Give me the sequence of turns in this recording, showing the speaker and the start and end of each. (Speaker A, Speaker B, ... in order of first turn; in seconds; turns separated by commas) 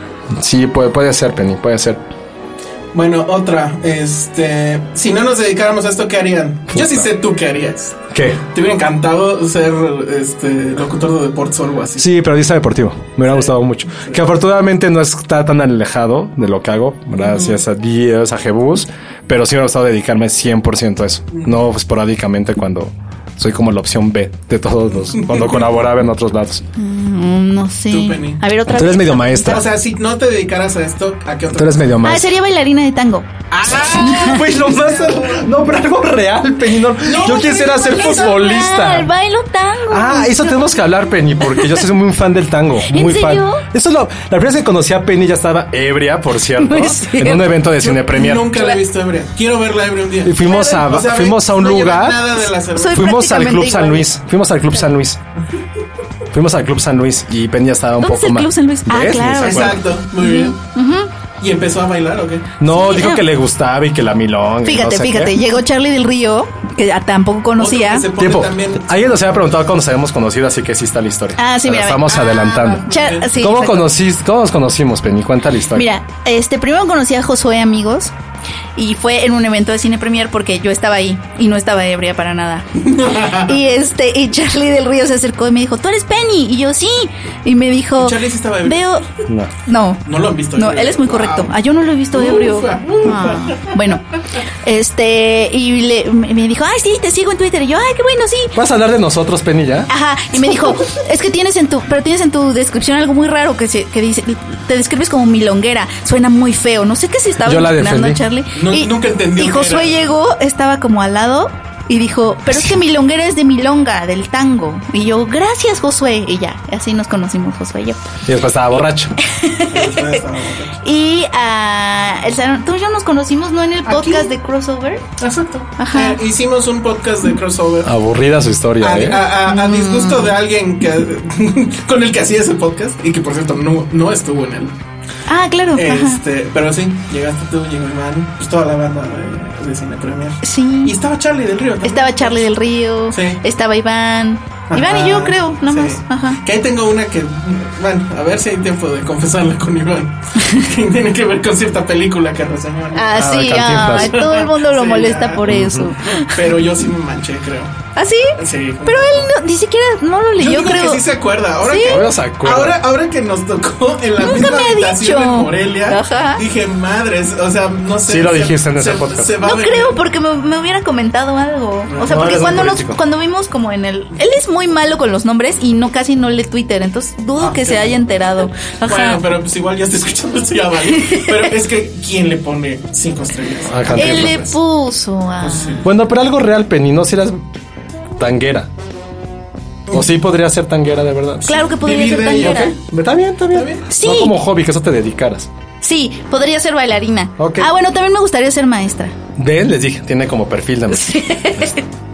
Speaker A: 0.3-2.0, Speaker B: 2.9-12.1, Speaker A: 6.7-7.1, Speaker A: 8.1-8.4, Speaker A: 12.0-26.6, Speaker B: 13.2-14.2, Speaker B: 17.2-17.6, Speaker B: 25.0-25.7, Speaker C: 26.8-29.6, Speaker B: 27.9-28.4, Speaker A: 28.7-29.6, Speaker B: 29.4-32.0, Speaker A: 31.5-32.3, Speaker C: 32.0-33.3, Speaker B: 33.5-35.5, Speaker A: 33.7-39.1, Speaker B: 37.0-38.8, Speaker C: 37.1-40.7, Speaker A: 39.9-48.7, Speaker C: 41.4-41.8, Speaker C: 42.9-43.6, Speaker C: 46.6-47.5, Speaker B: 47.9-53.1, Speaker C: 48.5-48.8, Speaker A: 50.2-55.2, Speaker C: 50.5-50.8, Speaker C: 52.8-54.1, Speaker A: 56.3-59.9, Speaker C: 58.0-61.1, Speaker B: 59.4-60.6, Speaker B: 61.4-62.5, Speaker A: 62.6-65.4, Speaker C: 62.7-63.2, Speaker C: 64.7-68.1, Speaker B: 67.6-69.0, Speaker A: 68.2-75.9, Speaker C: 71.4-73.9, Speaker B: 72.5-73.3, Speaker C: 75.8-78.1, Speaker C: 78.8-82.7, Speaker B: 82.8-83.6, Speaker C: 83.4-89.1, Speaker B: 88.0-89.0, Speaker C: 89.7-90.0, Speaker B: 90.1-91.5, Speaker C: 90.5-94.0, Speaker B: 92.1-94.0, Speaker C: 94.6-98.5, Speaker A: 98.5-99.9, Speaker C: 99.9-118.0, Speaker A: 107.4-108.2, Speaker B: 108.5-110.0, Speaker A: 118.3-119.2, Speaker C: 119.2-120.2, Speaker B: 119.7-120.8, Speaker C: 120.8-125.0, Speaker B: 123.9-124.3, Speaker B: 125.2-127.9, Speaker C: 125.8-126.2, Speaker A: 127.8-129.2, Speaker B: 128.8-134.8, Speaker C: 129.5-130.3, Speaker C: 135.3-136.2, Speaker B: 135.8-142.4, Speaker C: 140.4-140.9, Speaker C: 141.8-146.4, Speaker B: 143.1-143.4, Speaker B: 144.7-157.7, Speaker C: 152.9-156.5, Speaker A: 153.2-154.2, Speaker A: 155.5-155.9, Speaker C: 157.9-161.1, Speaker B: 158.4-159.3, Speaker B: 160.4-170.0, Speaker C: 161.6-162.0, Speaker A: 161.8-162.8, Speaker C: 164.2-166.4, Speaker A: 168.1-169.3, Speaker C: 169.4-179.2, Speaker B: 171.9-172.5, Speaker A: 172.0-173.0, Speaker B: 177.4-178.1, Speaker B: 178.9-184.6, Speaker C: 181.0-181.3, Speaker A: 183.7-184.4, Speaker C: 183.9-185.8, Speaker B: 185.4-185.9, Speaker A: 185.8-187.4, Speaker A: 188.2-188.7, Speaker A: 189.9-191.6, Speaker C: 191.4-192.8, Speaker B: 191.7-192.8, Speaker A: 192.4-195.5, Speaker B: 193.5-193.8, Speaker C: 193.9-194.3, Speaker C: 195.8-199.1, Speaker A: 197.4-197.7, Speaker A: 199.4-201.6, Speaker C: 200.9-201.8